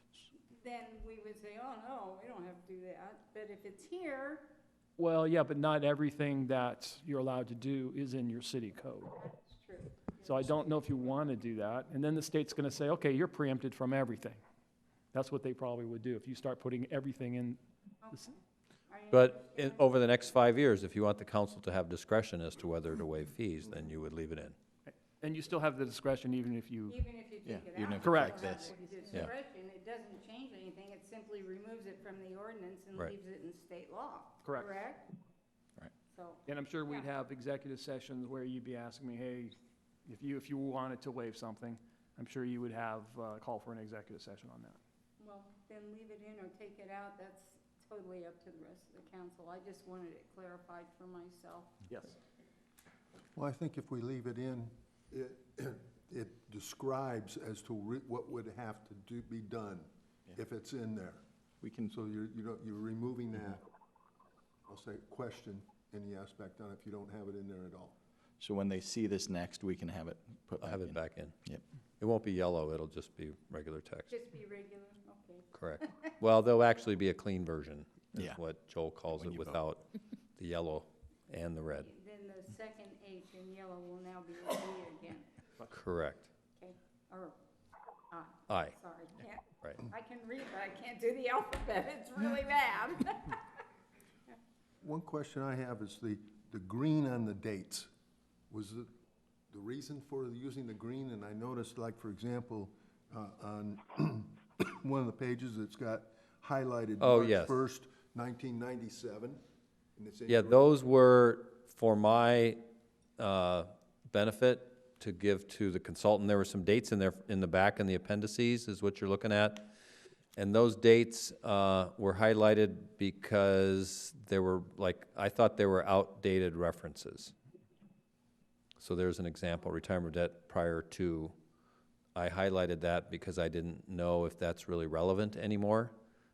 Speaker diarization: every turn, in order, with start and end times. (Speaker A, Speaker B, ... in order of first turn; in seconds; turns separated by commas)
Speaker A: 0.3-4.5, Speaker B: 5.0-9.1, Speaker A: 9.2-11.3, Speaker B: 10.2-14.4, Speaker B: 15.1-17.6, Speaker A: 18.0-20.4, Speaker C: 19.1-24.6, Speaker B: 24.9-27.0, Speaker A: 26.9-35.1, Speaker D: 27.4-29.3, Speaker B: 28.0-28.4, Speaker B: 34.4-34.8, Speaker A: 36.1-37.1, Speaker B: 36.5-39.5, Speaker B: 40.0-44.8, Speaker A: 45.2-51.7, Speaker B: 51.9-52.1, Speaker E: 53.3-61.2, Speaker D: 61.6-62.0, Speaker E: 61.9-63.6, Speaker E: 64.7-68.0, Speaker D: 68.4-71.6, Speaker C: 70.6-71.3, Speaker C: 72.0-74.1, Speaker A: 74.1-76.1, Speaker C: 75.5-81.9, Speaker D: 79.1-79.6, Speaker A: 81.8-85.3, Speaker C: 85.7-86.3, Speaker A: 86.5-87.3, Speaker A: 88.1-93.4, Speaker C: 88.5-88.7, Speaker E: 94.8-97.9, Speaker E: 98.5-98.9, Speaker E: 99.5-109.4, Speaker C: 107.0-107.5, Speaker E: 110.0-110.7, Speaker C: 110.3-112.6, Speaker C: 113.2-119.7, Speaker C: 120.4-127.3, Speaker C: 128.8-131.3, Speaker C: 132.2-135.9